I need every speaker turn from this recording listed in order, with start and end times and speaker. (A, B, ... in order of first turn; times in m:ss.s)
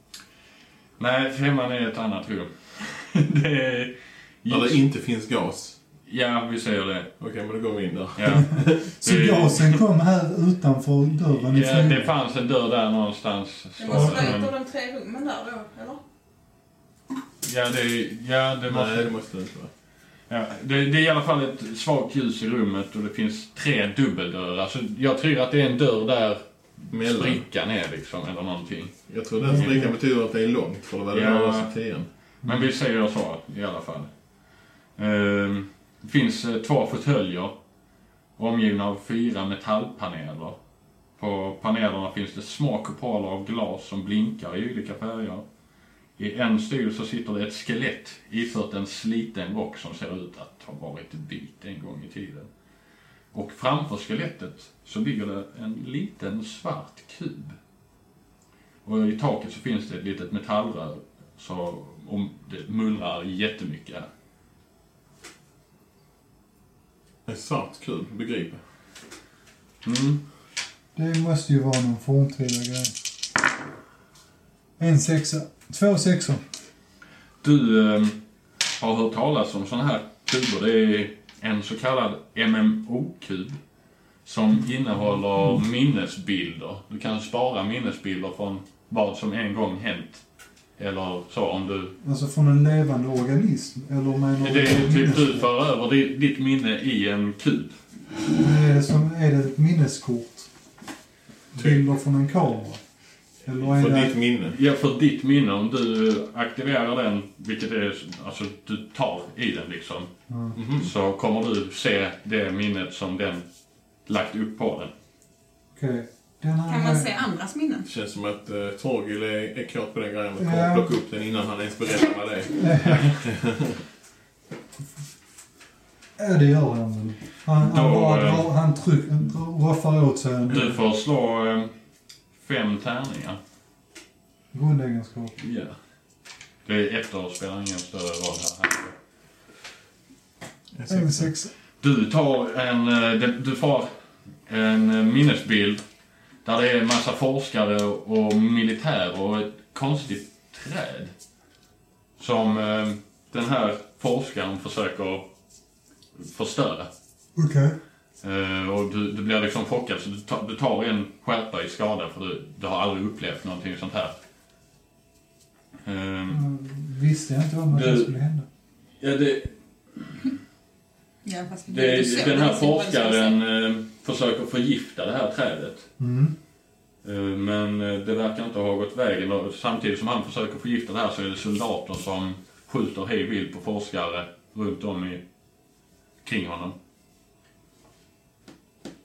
0:01.0-0:04.8 A
0:04.5-0:05.8 B
0:06.1-0:07.1 A
0:07.2-0:08.8 B
0:08.2-0:09.8 A
0:08.5-0:12.1 C
0:11.5-0:14.5 A
0:13.8-0:16.0 D
0:13.9-0:14.4 C
0:17.4-0:19.1 A
0:18.7-0:19.7 B
0:20.3-0:29.8 A
0:26.9-0:27.4 B
0:29.1-0:32.1 B
0:29.4-0:29.9 C
0:31.1-0:31.7 A
0:32.4-0:34.1 A
0:35.0-0:37.6 A
0:38.4-0:40.6 A
0:41.2-0:45.4 A
0:46.2-0:52.5 A
0:53.3-0:57.6 A
0:58.8-1:04.1 A
1:07.3-1:08.6 B
1:09.8-1:10.2 A
1:11.0-1:13.0 C
1:14.8-1:16.4 C
1:17.4-1:18.2 A
1:18.8-1:23.6 A
1:24.2-1:30.2 A
1:30.8-1:31.9 A
1:32.0-1:35.5 C
1:34.4-1:37.8 A
1:38.4-1:40.5 C
1:41.6-1:42.8 C
1:43.4-1:44.1 C
1:43.6-1:44.6 B
1:44.5-1:50.1 A
1:50.3-1:50.6 C
1:50.6-1:50.9 B
1:50.8-1:53.4 A
1:54.1-1:54.9 A
1:55.8-1:57.1 C
1:56.7-1:57.9 D
1:57.9-2:03.8 B
2:00.4-2:00.9 C
2:02.6-2:03.1 C
2:06.2-2:10.8 C
2:07.6-2:08.5 A
2:10.5-2:11.7 A
2:12.4-2:13.4 A
2:14.5-2:15.4 C
2:15.4-2:15.8 A
2:16.7-2:19.0 A
2:20.7-2:21.3 B
2:20.9-2:21.5 C
2:21.8-2:23.9 A
2:24.5-2:25.8 A
2:26.4-2:31.1 A
2:32.2-2:35.3 A
2:36.2-2:36.9 A
2:37.4-2:37.8 C
2:38.2-2:44.2 A
2:45.8-2:46.4 A
2:46.3-2:48.5 C
2:47.7-2:48.1 A
2:49.0-2:50.2 A
2:51.2-2:53.4 D
2:51.7-2:55.9 A
2:56.0-2:56.4 C
2:57.0-3:05.2 A
3:06.2-3:06.8 A